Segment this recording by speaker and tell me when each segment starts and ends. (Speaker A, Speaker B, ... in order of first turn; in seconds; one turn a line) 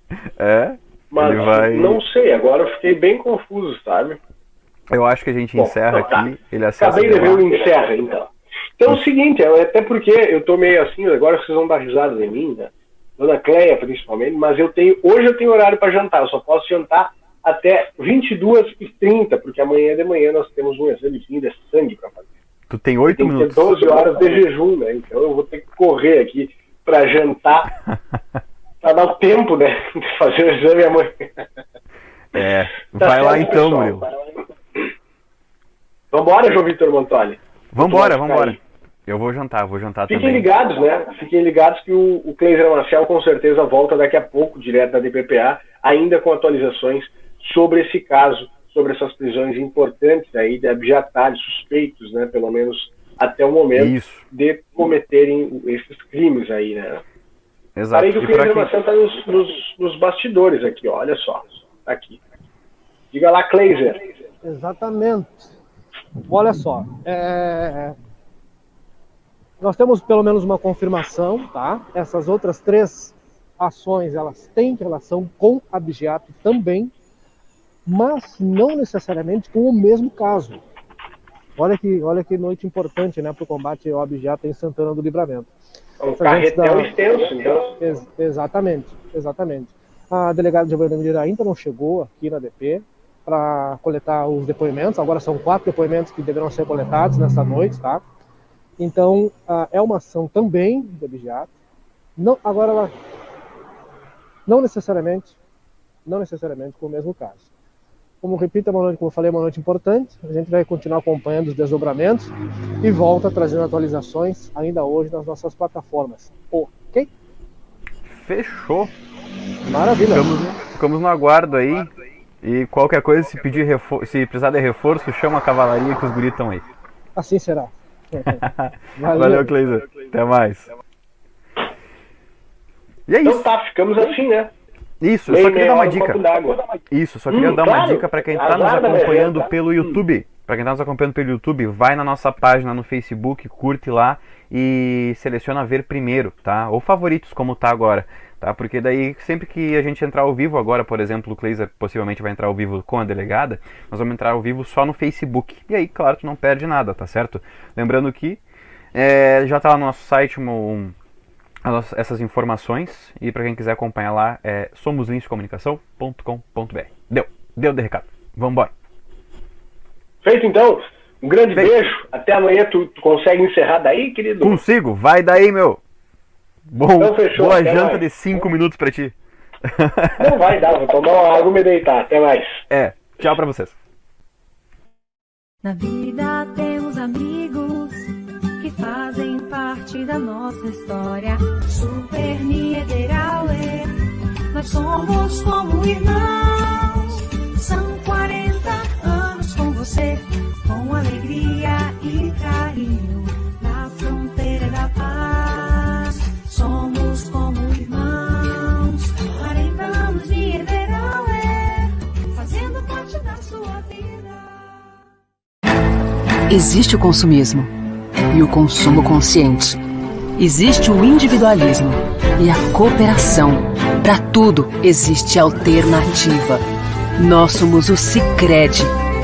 Speaker A: 0.4-2.0
Speaker B: 1.1-4.2
Speaker A: 4.9-7.5
Speaker B: 5.6-6.2
Speaker B: 6.8-22.3
Speaker A: 22.7-23.9
Speaker B: 23.1-27.7
Speaker B: 28.8-31.4
Speaker A: 32.3-34.0
Speaker B: 33.0-34.0
Speaker B: 36.1-38.6
Speaker A: 37.7-40.5
Speaker B: 40.1-57.0
Speaker A: 53.7-54.2
Speaker A: 57.8-58.7
Speaker B: 57.9-62.2
Speaker B: 63.1-64.0
Speaker C: 64.4-65.5
Speaker C: 66.3-68.0
Speaker C: 69.6-76.9
Speaker C: 77.9-80.6
Speaker C: 81.6-85.5
Speaker B: 86.0-87.7
Speaker C: 86.2-86.9
Speaker C: 87.8-98.0
Speaker C: 98.8-101.5
Speaker C: 102.2-102.9
Speaker C: 104.5-105.4
Speaker C: 106.1-107.5
Speaker C: 108.2-117.1
Speaker A: 118.1-118.9
Speaker C: 119.7-120.3
Speaker A: 120.0-121.9
Speaker A: 122.4-126.7
Speaker C: 127.2-128.4
Speaker A: 128.3-130.7
Speaker C: 129.0-129.5
Speaker A: 133.1-133.5
Speaker B: 133.2-134.5
Speaker A: 135.0-136.2
Speaker B: 135.3-136.6
Speaker A: 136.9-158.4
Speaker B: 137.3-139.5
Speaker A: 158.9-160.9
Speaker A: 161.6-168.7
Speaker B: 170.2-174.6
Speaker A: 174.4-175.8
Speaker A: 176.7-179.1
Speaker B: 177.0-178.0
Speaker A: 179.7-180.3
Speaker B: 180.2-182.6
Speaker A: 182.7-183.8
Speaker D: 185.6-193.9
Speaker D: 194.5-214.5
Speaker E: 216.5-217.7
Speaker E: 218.3-219.8
Speaker E: 220.4-226.6
Speaker E: 227.2-228.9